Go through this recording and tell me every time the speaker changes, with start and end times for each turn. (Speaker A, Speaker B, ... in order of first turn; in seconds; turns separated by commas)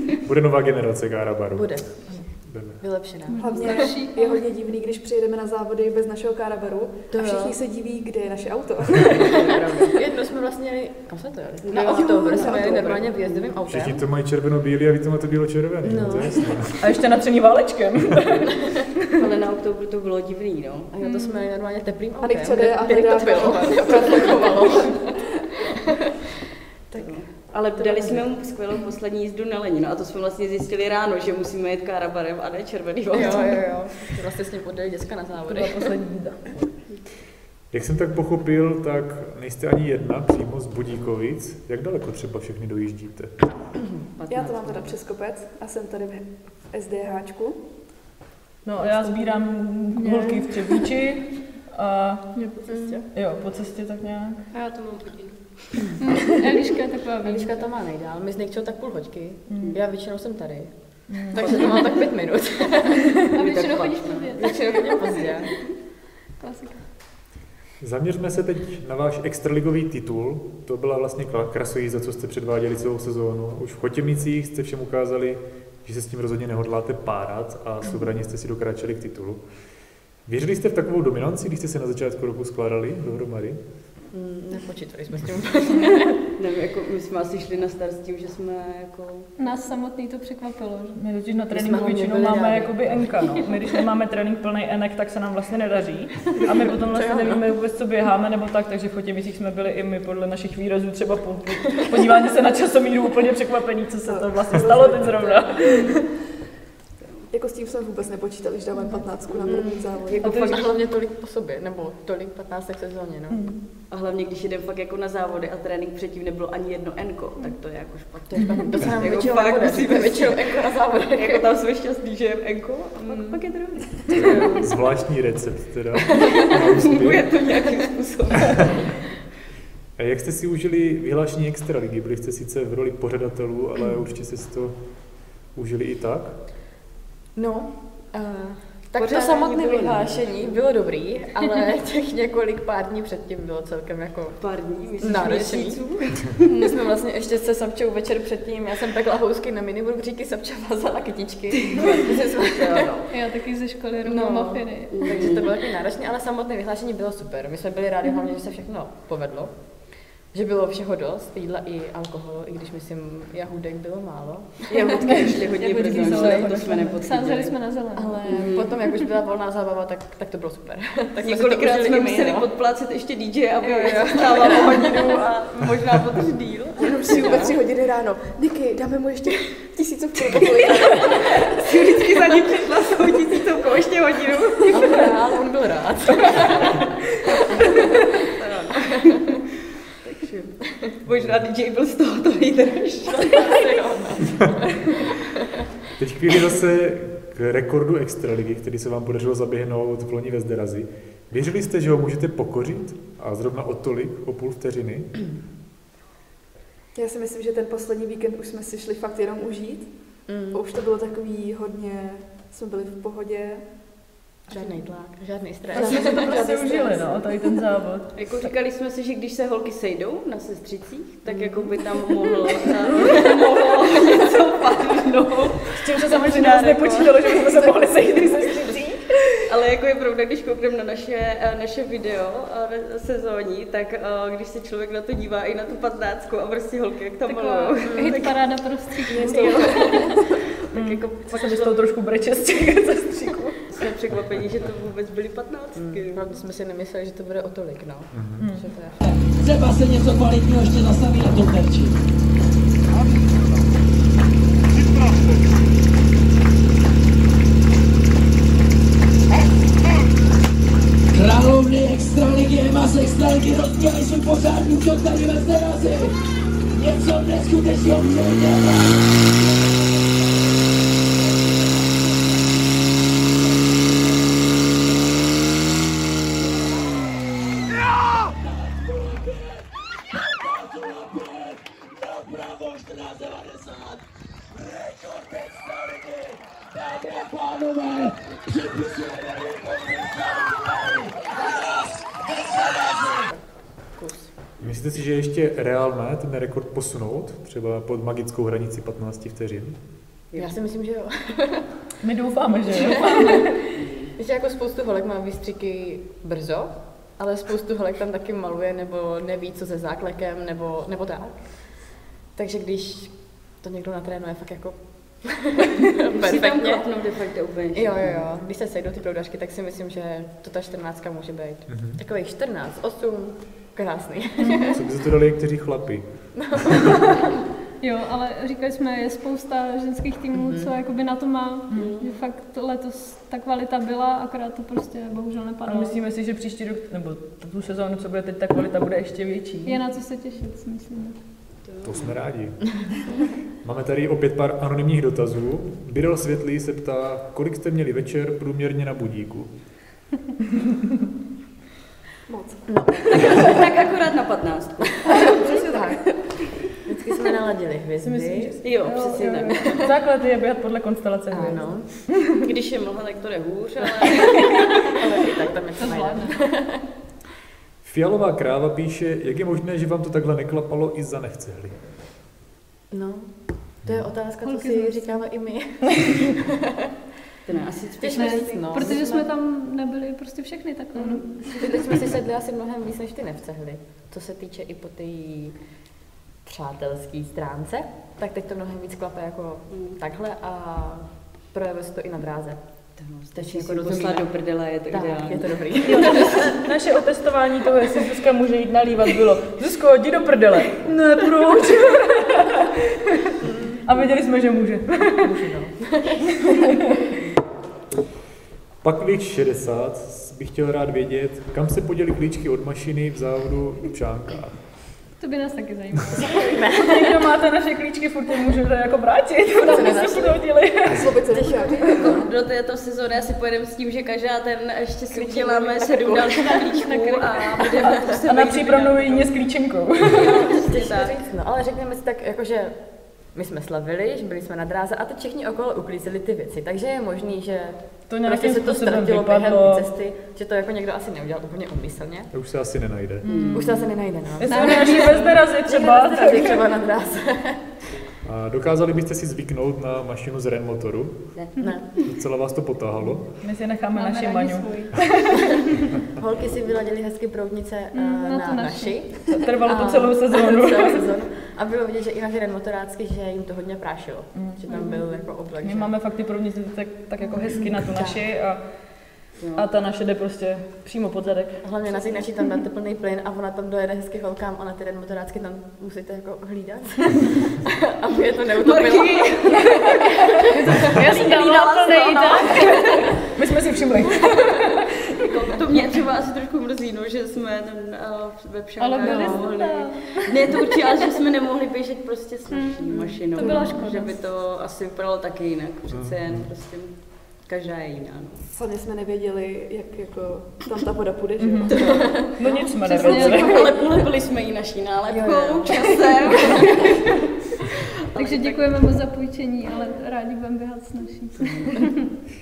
Speaker A: 0.2-1.8, Speaker B: 1.6-2.2, Speaker A: 2.5-2.8, Speaker B: 2.8-3.9, Speaker C: 3.3-4.4, Speaker D: 3.4-9.4, Speaker B: 7.1-7.6, Speaker E: 9.1-10.0, Speaker B: 9.9-14.0, Speaker E: 11.7-13.5, Speaker D: 11.8-13.0, Speaker A: 13.7-16.8, Speaker B: 15.8-16.7, Speaker F: 16.8-18.5, Speaker E: 19.2-20.9, Speaker B: 20.9-25.2, Speaker C: 21.0-21.5, Speaker D: 22.2-25.0, Speaker B: 25.8-26.1, Speaker E: 26.9-33.7, Speaker B: 27.8-28.2, Speaker B: 33.1-35.9, Speaker C: 33.2-33.6, Speaker F: 35.5-36.4, Speaker A: 37.7-43.3, Speaker E: 44.2-45.0, Speaker D: 44.3-47.6, Speaker F: 48.6-52.3, Speaker C: 50.0-50.8, Speaker C: 52.4-52.7, Speaker B: 52.7-53.0, Speaker F: 53.1-54.4, Speaker C: 54.5-55.4, Speaker C: 56.0-57.6, Speaker B: 57.2-60.7, Speaker F: 59.5-59.8, Speaker F: 61.1-61.5, Speaker B: 61.2-63.3, Speaker E: 61.4-61.8, Speaker C: 63.2-65.3, Speaker E: 63.3-64.8, Speaker B: 64.4-65.5, Speaker C: 66.4-66.8, Speaker A: 67.8-79.4, Speaker A: 80.2-83.6, Speaker B: 84.1-86.2, Speaker E: 86.4-89.3, Speaker C: 89.4-91.0, Speaker F: 91.0-106.0, Speaker B: 91.5-93.2, Speaker B: 96.9-97.4, Speaker D: 104.1-105.9, Speaker C: 105.6-105.9, Speaker D: 107.3-110.7, Speaker E: 109.4-110.5, Speaker B: 109.5-113.5, Speaker F: 113.3-113.6, Speaker E: 113.9-120.6, Speaker B: 118.3-121.5, Speaker E: 121.1-124.7, Speaker B: 123.1-123.4, Speaker A: 124.1-127.2, Speaker B: 126.2-126.5, Speaker E: 126.4-128.8, Speaker A: 130.0-134.8, Speaker A: 135.6-136.4, Speaker B: 137.4-144.4, Speaker E: 139.0-140.6, Speaker E: 144.4-146.4, Speaker B: 145.0-145.8, Speaker B: 146.4-153.0, Speaker E: 152.5-153.1, Speaker C: 153.1-155.2, Speaker B: 154.0-159.5, Speaker E: 154.9-155.4, Speaker B: 160.3-166.6, Speaker E: 164.7-167.6, Speaker C: 165.5-168.5, Speaker F: 166.0-166.6, Speaker B: 168.0-172.5, Speaker E: 168.3-168.7, Speaker E: 171.2-177.5, Speaker B: 173.6-175.2, Speaker D: 176.8-181.6, Speaker B: 177.1-177.6, Speaker E: 181.3-185.1, Speaker B: 184.7-188.2, Speaker E: 187.7-189.4, Speaker E: 190.0-193.6, Speaker A: 191.1-191.4, Speaker B: 193.1-195.2, Speaker A: 196.0-205.2, Speaker D: 206.9-209.9, Speaker B: 210.3-210.6, Speaker D: 210.4-213.6, Speaker D: 214.5-214.8, Speaker B: 214.5-217.2, Speaker F: 215.7-218.2, Speaker D: 215.8-216.4, Speaker E: 218.2-227.4, Speaker B: 221.3-222.0, Speaker F: 223.0-223.3, Speaker F: 225.7-229.4, Speaker E: 229.5-238.4, Speaker C: 237.2-240.2, Speaker B: 237.9-238.3, Speaker E: 239.1-241.8, Speaker D: 239.2-240.2, Speaker F: 240.7-243.6, Speaker E: 243.7-246.3, Speaker B: 245.8-249.0, Speaker A: 248.1-248.4, Speaker F: 248.4-248.7, Speaker G: 249.4-251.9, Speaker G: 261.1-266.1, Speaker G: 266.8-269.0, Speaker G: 278.9-279.4, Speaker G: 280.7-284.0, Speaker G: 284.7-291.5, Speaker G: 292.5-293.2, Speaker B: 294.0-294.3, Speaker A: 294.6-299.8, Speaker B: 300.4-301.6, Speaker F: 302.0-303.6, Speaker B: 302.7-303.6, Speaker E: 303.8-304.1, Speaker B: 304.2-311.4, Speaker B: 312.4-316.9, Speaker E: 316.1-318.3, Speaker B: 317.8-324.8, Speaker A: 321.7-322.0, Speaker A: 324.7-326.0, Speaker B: 326.4-327.3, Speaker C: 327.8-336.0, Speaker B: 330.3-330.7, Speaker F: 331.7-331.9, Speaker E: 331.7-332.1, Speaker F: 335.6-339.8, Speaker C: 339.6-341.2, Speaker E: 341.6-342.2, Speaker A: 341.8-342.6, Speaker A: 343.6-349.5, Speaker D: 352.3-353.4, Speaker B: 352.7-353.6, Speaker E: 353.1-355.3, Speaker B: 355.1-356.0, Speaker D: 355.1-356.1, Speaker B: 356.9-358.6, Speaker F: 358.0-361.7, Speaker E: 358.6-359.8, Speaker B: 361.3-361.9, Speaker E: 362.4-364.5, Speaker B: 364.8-366.8, Speaker C: 365.8-366.4, Speaker A: 367.8-371.8, Speaker B: 372.9-373.3, Speaker B: 373.8-376.9, Speaker C: 374.4-375.2, Speaker E: 377.5-379.0, Speaker B: 378.0-379.3, Speaker C: 378.1-381.7, Speaker B: 381.0-385.5, Speaker E: 381.1-381.4, Speaker B: 386.4-392.6, Speaker E: 389.7-390.0, Speaker E: 393.0-396.0, Speaker B: 393.4-394.3, Speaker B: 394.9-396.6, Speaker F: 395.8-403.3, Speaker B: 403.4-403.8, Speaker F: 403.9-405.3, Speaker B: 405.1-406.6, Speaker F: 406.3-406.9, Speaker A: 408.8-414.6, Speaker C: 415.2-416.7, Speaker B: 416.3-417.3, Speaker F: 416.6-421.1, Speaker B: 419.6-420.4, Speaker D: 420.9-422.2, Speaker B: 421.3-422.3, Speaker E: 421.9-429.3, Speaker B: 425.2-426.2, Speaker D: 425.7-426.0, Speaker C: 426.6-427.7, Speaker B: 427.8-428.1, Speaker F: 428.2-430.3, Speaker E: 430.0-431.2, Speaker B: 430.1-432.8, Speaker B: 433.3-442.3, Speaker F: 438.1-439.9, Speaker A: 442.3-443.2, Speaker E: 443.2-443.7, Speaker F: 443.2-446.7, Speaker B: 443.5-447.6, Speaker C: 444.4-445.5, Speaker A: 448.2-451.2, Speaker B: 451.6-451.9, Speaker A: 452.0-453.3, Speaker F: 453.4-455.5, Speaker C: 453.9-455.1, Speaker B: 456.1-465.9, Speaker C: 457.9-459.0, Speaker F: 459.3-461.1, Speaker F: 464.4-464.6, Speaker C: 464.7-465.0, Speaker F: 465.6-468.6, Speaker B: 467.4-468.2, Speaker E: 469.4-469.7, Speaker F: 469.6-471.6, Speaker B: 471.6-481.2, Speaker E: 478.6-480.0, Speaker C: 480.5-483.2, Speaker E: 480.9-483.1, Speaker F: 480.9-484.9, Speaker E: 485.2-498.4, Speaker C: 488.8-490.8, Speaker F: 489.0-489.4, Speaker C: 492.5-494.2, Speaker A: 495.9-496.5, Speaker D: 498.5-502.4, Speaker F: 501.4-503.6, Speaker E: 501.7-502.2, Speaker E: 502.8-507.1, Speaker C: 502.9-503.7, Speaker D: 503.0-503.6, Speaker B: 505.1-506.6, Speaker E: 508.1-508.7, Speaker C: 508.1-512.1, Speaker E: 511.4-511.7